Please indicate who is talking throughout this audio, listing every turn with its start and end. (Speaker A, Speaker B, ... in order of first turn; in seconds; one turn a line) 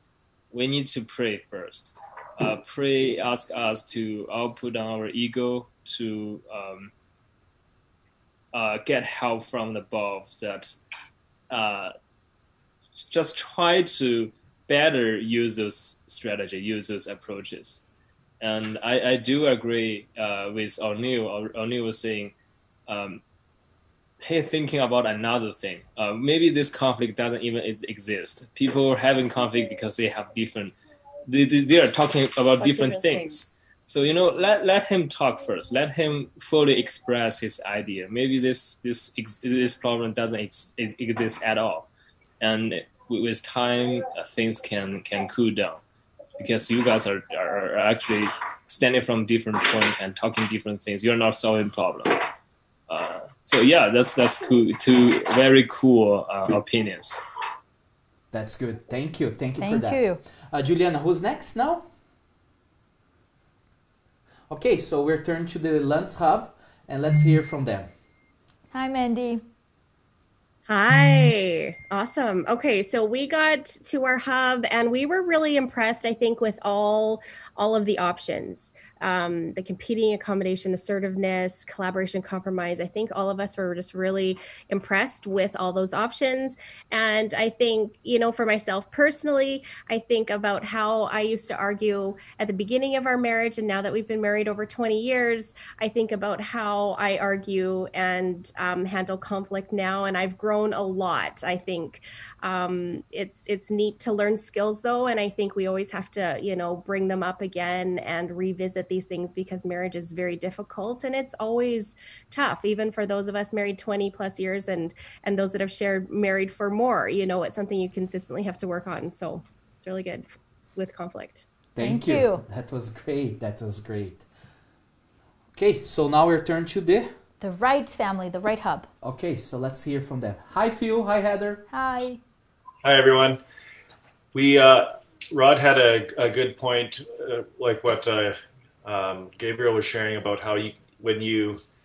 Speaker A: 0.5-6.9
Speaker A: 8.5-10.8
Speaker A: 11.5-11.9
Speaker A: 13.0-17.8
Speaker A: 18.4-22.3
Speaker A: 22.9-23.2
Speaker A: 24.2-30.7
Speaker A: 31.3-41.9
Speaker A: 42.4-45.8
Speaker A: 46.4-52.2
Speaker A: 52.9-57.2
Speaker B: 58.3-61.8
Speaker C: 59.6-60.2
Speaker B: 64.5-67.9
Speaker C: 68.7-69.4
Speaker D: 70.7-121.5
Speaker B: 121.7-124.2
Speaker C: 121.8-122.4
Speaker B: 125.5-127.1
Speaker C: 127.4-128.9
Speaker B: 129.0-131.6
Speaker C: 131.7-132.2
Speaker E: 132.8-133.4
Speaker E: 134.3-141.6